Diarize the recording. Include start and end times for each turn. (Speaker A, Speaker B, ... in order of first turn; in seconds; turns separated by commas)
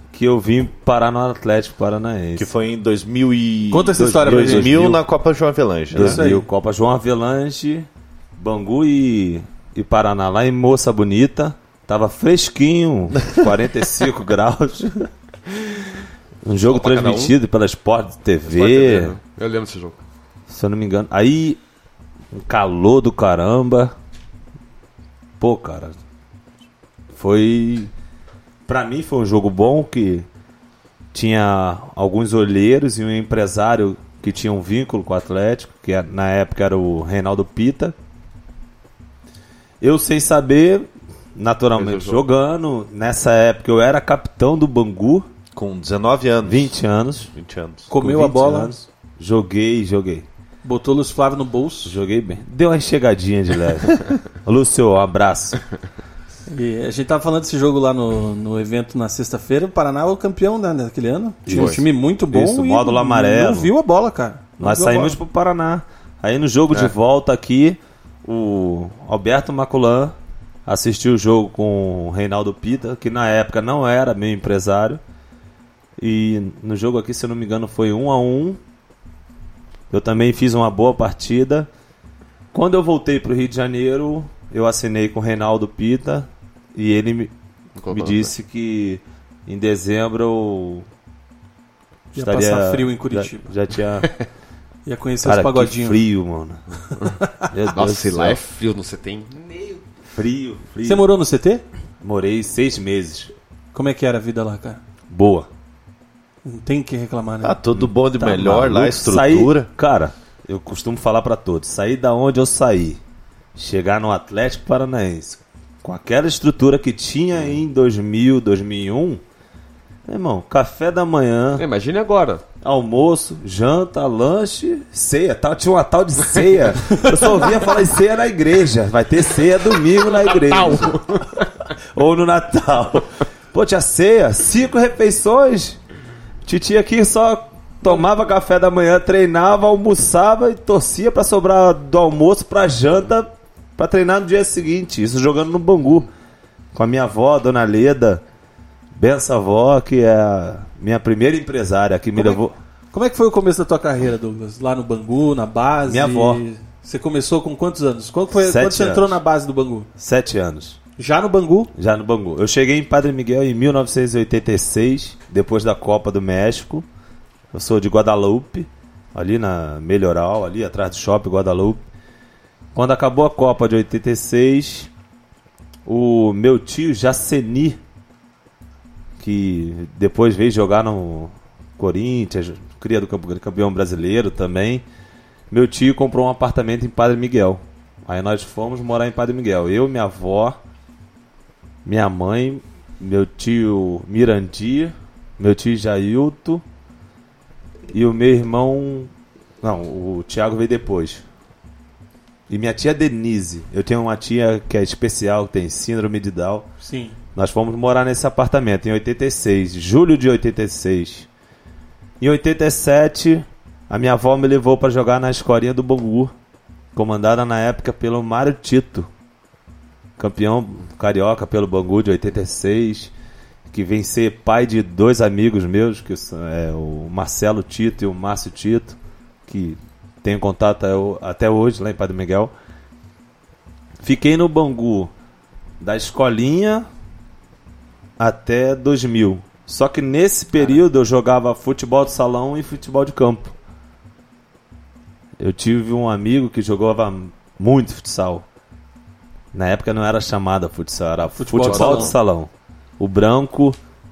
Speaker A: 0.1-2.5, Speaker B: 2.4-6.2, Speaker C: 3.7-5.0, Speaker A: 4.0-5.0, Speaker A: 5.9-15.1, Speaker C: 5.9-6.4, Speaker A: 16.4-19.2, Speaker D: 16.7-17.4, Speaker D: 18.5-20.0, Speaker A: 20.5-21.6, Speaker A: 22.3-23.9, Speaker A: 25.4-26.0, Speaker A: 27.1-27.9, Speaker A: 28.7-30.3, Speaker A: 31.1-38.0, Speaker A: 39.8-45.3, Speaker D: 41.8-42.2, Speaker B: 45.5-46.7, Speaker A: 46.5-47.3, Speaker B: 47.3-47.9, Speaker C: 47.9-48.8, Speaker A: 48.0-50.3, Speaker C: 50.6-52.0, Speaker A: 51.9-55.6, Speaker C: 56.5-65.2, Speaker A: 61.5-63.7, Speaker D: 61.5-61.8, Speaker A: 64.6-70.2, Speaker A: 70.7-75.0, Speaker A: 76.0-78.6, Speaker A: 79.9-81.7, Speaker A: 82.5-90.9, Speaker D: 87.8-88.3, Speaker C: 92.1-93.5, Speaker A: 92.1-94.1, Speaker C: 94.9-96.0, Speaker A: 95.2-96.6, Speaker A: 97.5-98.4, Speaker D: 97.8-99.8, Speaker A: 100.1-101.0, Speaker C: 100.8-101.7, Speaker A: 102.0-103.3, Speaker C: 103.7-104.8, Speaker A: 105.1-105.5, Speaker C: 106.5-107.6, Speaker B: 107.4-109.7, Speaker A: 108.1-113.0, Speaker A: 113.6-119.2, Speaker A: 120.1-121.6, Speaker D: 121.6-122.4, Speaker A: 122.6-131.2, Speaker D: 130.1-131.5, Speaker A: 131.9-135.8, Speaker A: 136.5-146.1, Speaker A: 146.7-148.2, Speaker A: 149.0-152.6, Speaker C: 152.2-159.9, Speaker A: 155.9-156.4, Speaker A: 158.3-159.2, Speaker A: 160.0-160.8, Speaker C: 161.0-161.7, Speaker A: 161.8-166.9, Speaker A: 167.5-171.8, Speaker A: 172.8-174.9, Speaker A: 175.9-177.8, Speaker A: 179.2-184.8, Speaker A: 185.5-190.6, Speaker A: 191.8-196.6, Speaker A: 197.9-199.1, Speaker A: 199.6-201.2, Speaker A: 202.5-206.7, Speaker C: 206.8-207.2, Speaker A: 207.3-211.3, Speaker A: 212.2-216.3, Speaker A: 216.9-219.1, Speaker A: 220.2-223.1, Speaker A: 223.7-229.0, Speaker A: 229.5-232.5, Speaker A: 234.0-235.1, Speaker A: 235.8-236.9, Speaker A: 238.2-243.6, Speaker A: 245.4-248.5, Speaker A: 249.5-253.8, Speaker C: 251.3-252.1, Speaker D: 251.6-252.2